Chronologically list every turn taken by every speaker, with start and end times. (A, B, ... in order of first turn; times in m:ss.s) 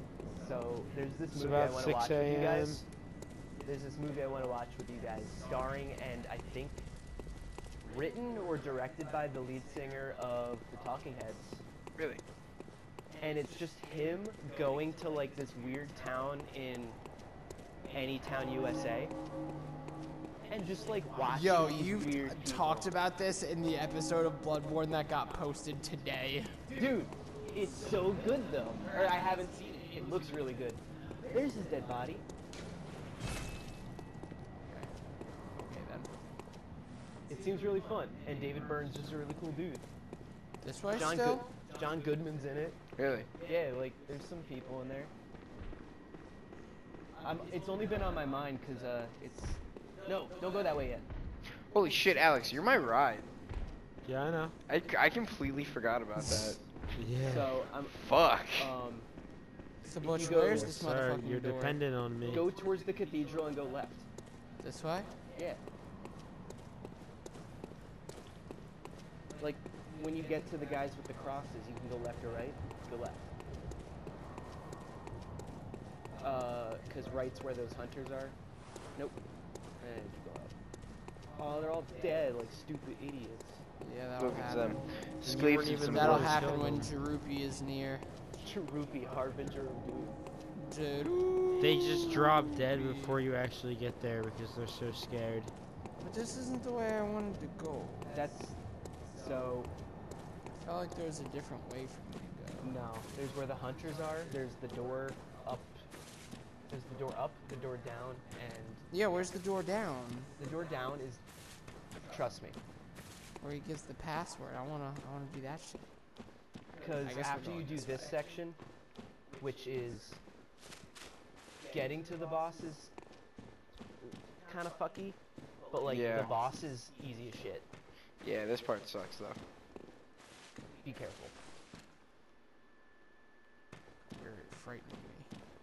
0:00.4-0:02.9 A
0:01.3-0:02.8 B
0:03.6-0:06.9 A
0:07.8-0:11.6 A
0:12.0-0:12.2 C
0:13.2-0:17.0 A
0:17.9-0:19.1 A
0:20.5-0:22.9 A
0:21.2-0:26.6 D
0:26.7-0:32.2 A
0:34.6-0:36.1 D
0:37.3-0:39.8 A
0:40.6-0:41.4 D
0:40.9-0:42.8 A
0:43.0-0:43.3 C
0:43.4-0:45.1 A
0:47.2-0:51.0 A
0:51.7-0:53.3 C
0:54.0-0:54.6 B
0:54.7-0:56.6 C
0:56.9-0:57.5 B
0:57.2-0:59.1 A
0:57.8-0:58.7 C
0:59.8-1:01.8 D
1:00.0-1:00.8 A
1:00.4-1:02.5 B
1:02.2-1:04.1 A
1:04.6-1:05.2 D
1:05.3-1:05.6 A
1:09.4-1:13.3 A
1:16.2-1:18.4 A
1:18.9-1:19.2 A
1:19.8-1:20.6 A
1:21.3-1:23.6 A
1:23.8-1:24.9 D
1:24.2-1:26.5 C
1:25.2-1:26.9 B
1:25.8-1:28.1 D
1:28.4-1:30.2 A
1:30.5-1:33.2 D
1:31.6-1:35.5 B
1:36.0-1:38.1 D
1:38.1-1:38.6 A
1:39.1-1:39.7 A
1:40.5-1:42.8 D
1:42.6-1:45.9 A
1:46.7-1:48.8 A
1:48.9-1:50.3 D
1:50.4-1:51.3 A
1:52.0-1:52.6 A
1:53.4-1:56.0 D
1:56.8-1:58.6 A
1:57.0-1:58.1 D
1:59.4-2:00.2 A
2:01.7-2:02.9 A
2:04.0-2:07.7 A
2:05.8-2:06.3 C
2:08.2-2:09.4 C
2:10.8-2:11.3 A
2:14.1-2:15.3 D